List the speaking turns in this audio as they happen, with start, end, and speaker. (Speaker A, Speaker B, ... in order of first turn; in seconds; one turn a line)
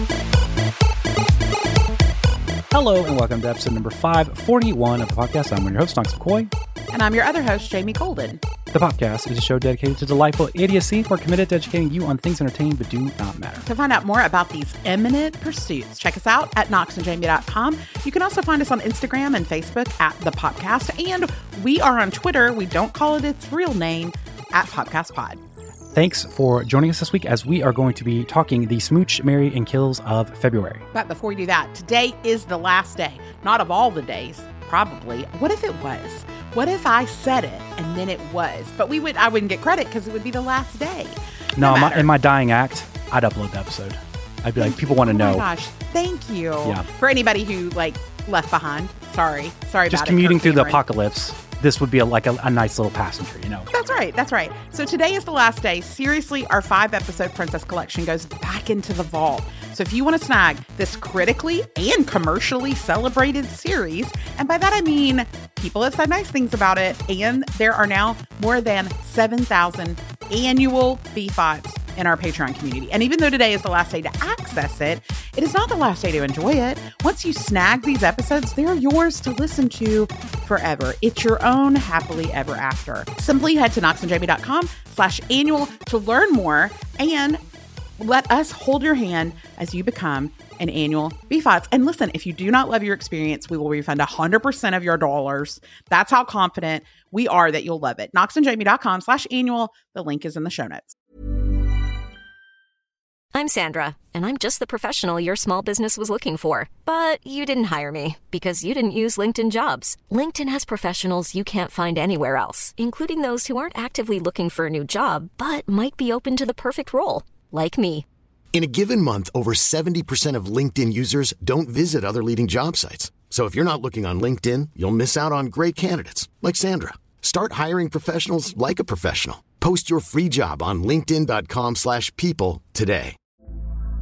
Speaker A: 2.7-6.5
Speaker B: 6.9-8.4
Speaker A: 8.7-13.6
Speaker B: 13.6-25.4
Speaker A: 25.9-30.8
Speaker B: 30.9-42.1
Speaker A: 41.5-45.4
Speaker B: 44.6-50.8
Speaker A: 49.9-53.7
Speaker B: 53.7-87.4
Speaker B: 88.0-100.9
Speaker C: 103.3-118.0
Speaker D: 118.5-133.2